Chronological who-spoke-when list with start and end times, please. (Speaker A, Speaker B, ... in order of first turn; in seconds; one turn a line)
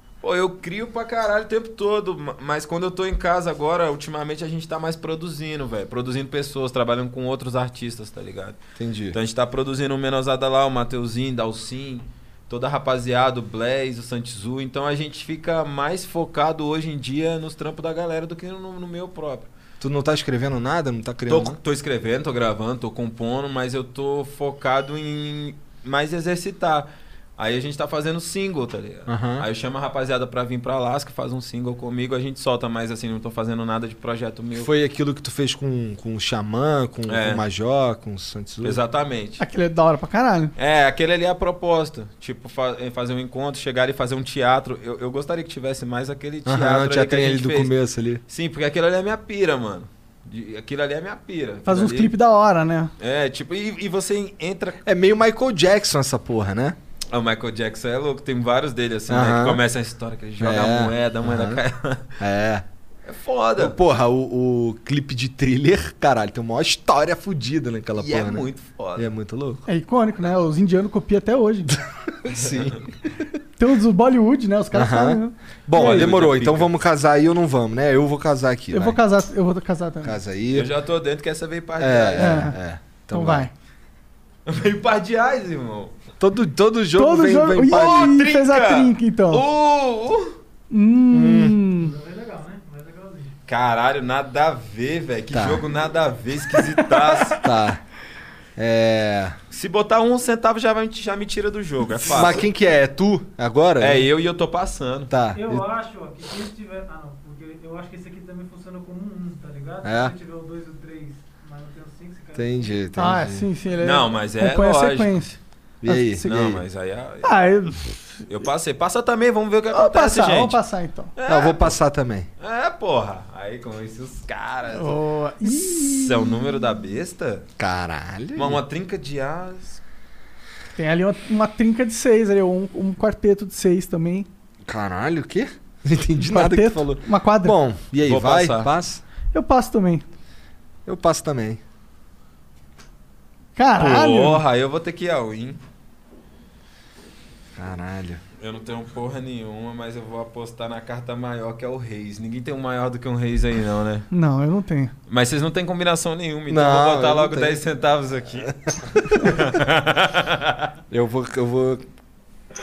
Speaker A: 0.2-8.6
Speaker B: 8.8-9.2
Speaker A: 9.1-19.5
Speaker B: 19.8-21.6
Speaker A: 21.3-34.7
Speaker B: 29.1-29.4
Speaker B: 34.5-38.8
Speaker A: 37.1-37.4
Speaker A: 38.6-39.4
Speaker C: 39.4-40.5
Speaker A: 40.6-47.7
Speaker B: 46.4-48.2
Speaker A: 48.3-52.1
Speaker C: 51.6-52.9
Speaker A: 53.0-54.8
Speaker B: 54.8-56.8
Speaker A: 57.1-62.1
Speaker B: 59.1-59.6
Speaker B: 60.4-61.6
Speaker B: 62.2-62.6
Speaker A: 63.0-63.8
Speaker B: 63.6-68.5
Speaker A: 68.0-69.1
Speaker B: 69.0-69.7
Speaker C: 69.7-71.7
Speaker B: 71.7-72.8
Speaker A: 72.4-72.8
Speaker C: 73.6-75.9
Speaker B: 74.7-79.0
Speaker A: 75.7-76.7
Speaker C: 78.7-80.2
Speaker B: 80.0-80.7
Speaker A: 80.5-82.5
Speaker B: 81.8-83.5
Speaker C: 82.2-82.5
Speaker C: 83.1-83.5
Speaker A: 84.5-85.9
Speaker B: 86.2-88.2
Speaker C: 86.9-89.4
Speaker A: 87.7-90.3
Speaker C: 90.7-91.9
Speaker B: 91.1-91.5
Speaker D: 91.7-93.3
Speaker A: 93.5-97.4
Speaker B: 95.3-95.6
Speaker B: 97.3-97.8
Speaker B: 98.5-99.4
Speaker A: 99.5-102.5
Speaker B: 102.0-104.1
Speaker A: 103.8-105.1
Speaker B: 105.1-105.7
Speaker D: 105.3-112.8
Speaker B: 109.8-110.1
Speaker B: 112.3-113.5
Speaker C: 113.0-116.5
Speaker A: 113.8-115.2
Speaker B: 115.8-116.6
Speaker A: 116.2-117.3
Speaker C: 117.2-118.2
Speaker A: 118.3-120.6
Speaker C: 119.7-121.1
Speaker A: 121.2-121.8
Speaker B: 121.2-122.3
Speaker A: 122.4-125.0
Speaker C: 124.7-126.1
Speaker A: 125.7-127.5
Speaker B: 127.6-128.6
Speaker A: 128.3-129.8
Speaker C: 130.8-134.3
Speaker B: 134.7-139.0
Speaker C: 136.2-137.6
Speaker A: 138.0-138.7
Speaker C: 139.3-140.0
Speaker B: 140.8-141.6
Speaker C: 143.6-144.4
Speaker A: 143.8-145.6
Speaker B: 147.6-148.2
Speaker A: 148.4-154.1
Speaker C: 154.1-154.9
Speaker A: 155.1-160.7
Speaker B: 156.5-157.6
Speaker B: 160.9-161.8